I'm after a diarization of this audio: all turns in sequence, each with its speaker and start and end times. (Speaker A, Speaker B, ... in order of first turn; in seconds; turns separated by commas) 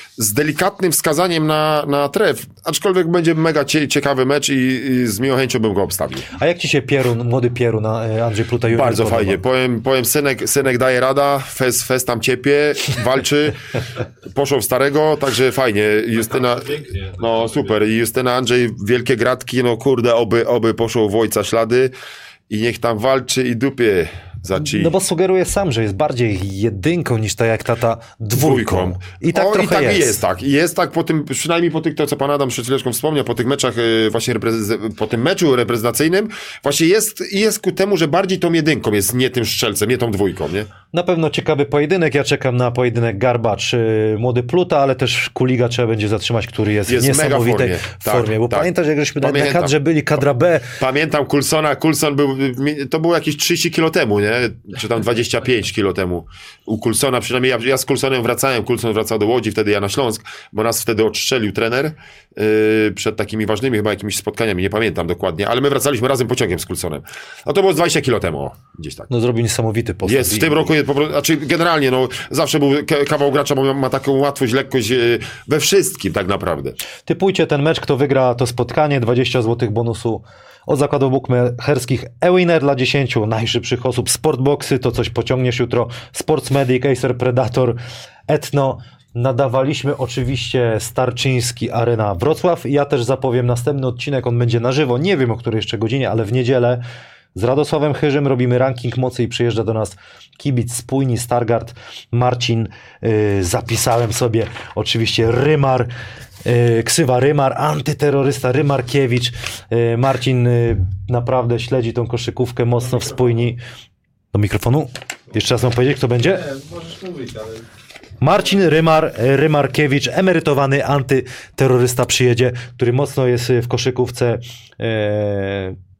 Speaker A: 0.2-6.3, Speaker B: 6.3-9.4, Speaker A: 8.6-21.9, Speaker C: 16.3-17.8, Speaker A: 22.5-24.9, Speaker B: 24.5-30.2, Speaker A: 28.3-40.7, Speaker B: 40.9-50.8, Speaker A: 46.9-48.7, Speaker A: 49.2-49.7, Speaker A: 50.8-69.1, Speaker B: 69.1-70.7, Speaker A: 70.0-76.8, Speaker B: 77.0-96.8, Speaker B: 97.3-105.9, Speaker B: 106.4-113.6, Speaker B: 114.3-116.4, Speaker C: 116.3-117.7, Speaker B: 118.2-125.8